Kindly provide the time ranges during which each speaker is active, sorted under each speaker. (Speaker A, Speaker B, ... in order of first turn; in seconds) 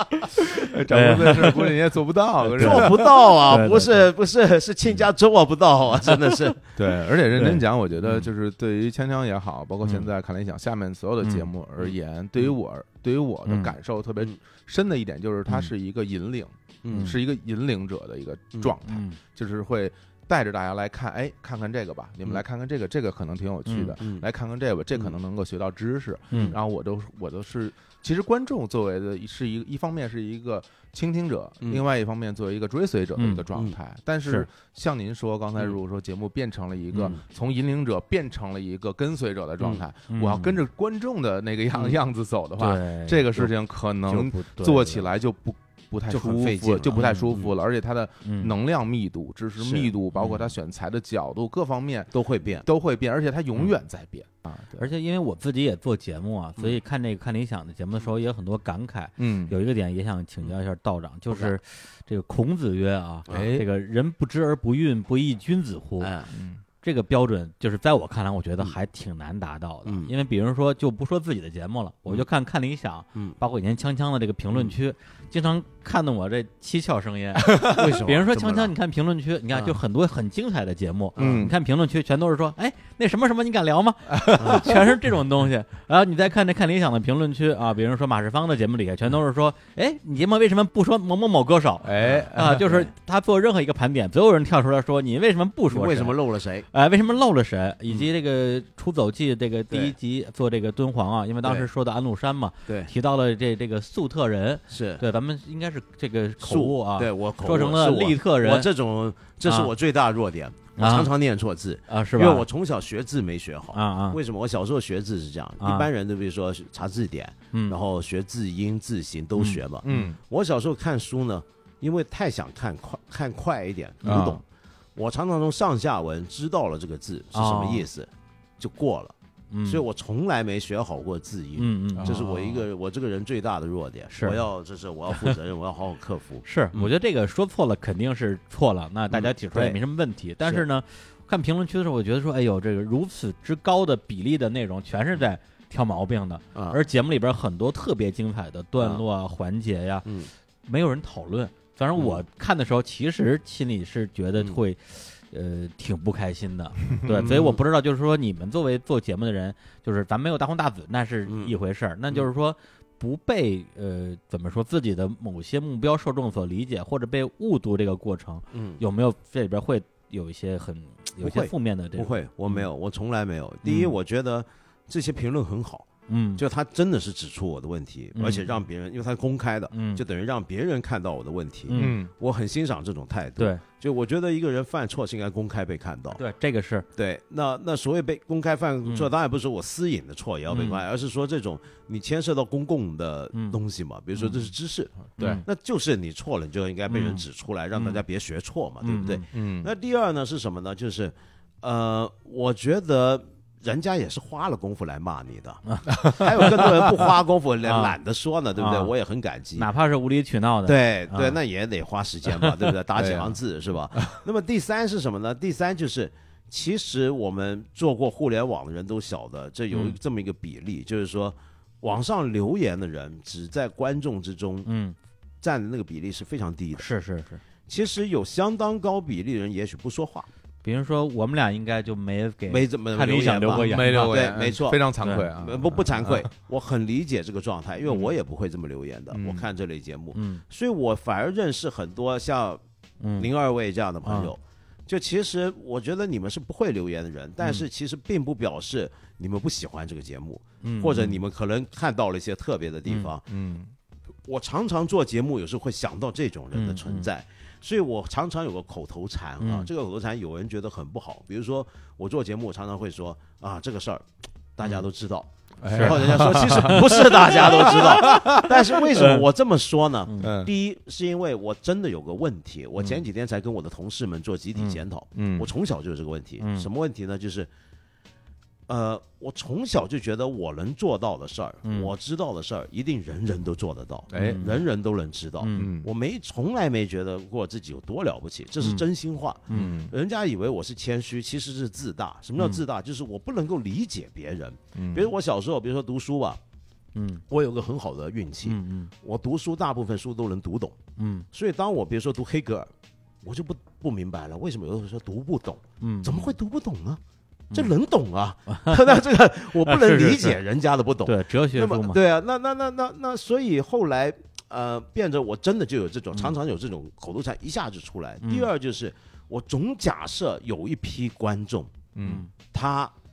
Speaker A: 0.2-1.7, 2.6-4.0, 7.4-8.3, 11.2-11.5, 13.5-13.7, 16.9-17.2, 18.9-19.2, 23.7-24.0, 26.3-26.6, 33.2-33.5, 40.1-40.6, 42.6-43.5, 44.1-45.1, 46.9-47.4, 48.2-48.5, 50.2-50.5, 54.8-66.2, 66.8-96.2, 96.7-108.7, 109.5-109.7, 110.8-111.1, 111.9-112.5, 113.7-114.2, 115.6-115.9, 119.4-120.1, 124.0-124.4, 127.3-127.9, 129.5-129.8, 131.6-132.2, 134.1-134.4, 136.4-150.1, 150.7-172.7, 173.6-173.9, 176.1-176.4, 178.2-178.6, 179.7-180.0, 181.7-182.0, 183.4-183.6, 186.2-186.9, 190.5-190.8, 193.3-193.6, 195.2-195.4, 196.9-198.0, 198.8-199.2, 205.7-206.7, 207.7-208.0, 208.6-208.9, 209.6-211.4, 219.7-220.0, 224.7-225.0, 226.8-227.4, 230.6-234.3, 235.0-235.3, 240.1-240.4, 243.0-243.3, 244.0-244.3, 250.6-251.2, 256.5-257.1, 259.4-259.7, 265.7-268.4, 269.0-269.2, 270.1-270.3, 276.4-276.7, 281.6-281.9, 284.1-284.6, 285.4-285.7, 289.5-289.8, 296.9-297.2, 298.4-298.9, 301.0-301.3, 305.8-306.3, 308.5-308.9, 309.6-310.4, 311.1-312.0, 318.2-318.5, 322.0-322.3
Speaker B: 0.4-3.1, 6.8-54.9, 59.2-59.5, 63.3-63.7, 66.3-66.6, 81.2-81.5, 84.2-84.7, 91.8-92.9, 119.8-120.2, 124.0-124.4, 132.0-132.6, 181.7-182.1, 195.2-195.4, 199.3-199.7, 205.9-206.3, 213.0-213.4, 213.9-214.2, 233.5-236.3, 239.1-239.5, 253.3-253.7, 265.6-268.8, 270.2-270.5, 274.6-275.5, 284.1-284.5, 285.6-285.9, 289.5-289.9, 294.8-295.1, 321.9-322.2
Speaker C: 2.5-6.7, 16.8-17.1, 24.0-24.3, 26.3-26.6, 36.9-37.2, 46.1-47.5, 49.6-49.9, 52.1-52.7, 61.3-61.5, 66.0-66.3, 69.8-70.1, 77.6-78.7, 79.5-79.8, 81.2-81.5, 84.4-84.8, 95.7-96.7, 99.7-100.0, 101.4-101.7, 104.7-105.0, 106.4-124.4, 125.0-129.2, 129.7-136.9, 139.1-139.8, 146.5-146.8, 148.8-149.0, 150.1-150.3, 152.0-152.2, 157.1-157.6, 161.3-161.6, 168.5-168.8, 171.2-186.2, 186.9-209.7, 210.7-224.7, 225.4-226.9, 227.7-230.3, 232.5-242.6, 243.2-253.3, 254.3-277.5, 278.7-296.4, 297.3-300.8, 301.3-302.7, 303.2-307.0, 307.5-321.8, 322.5-322.9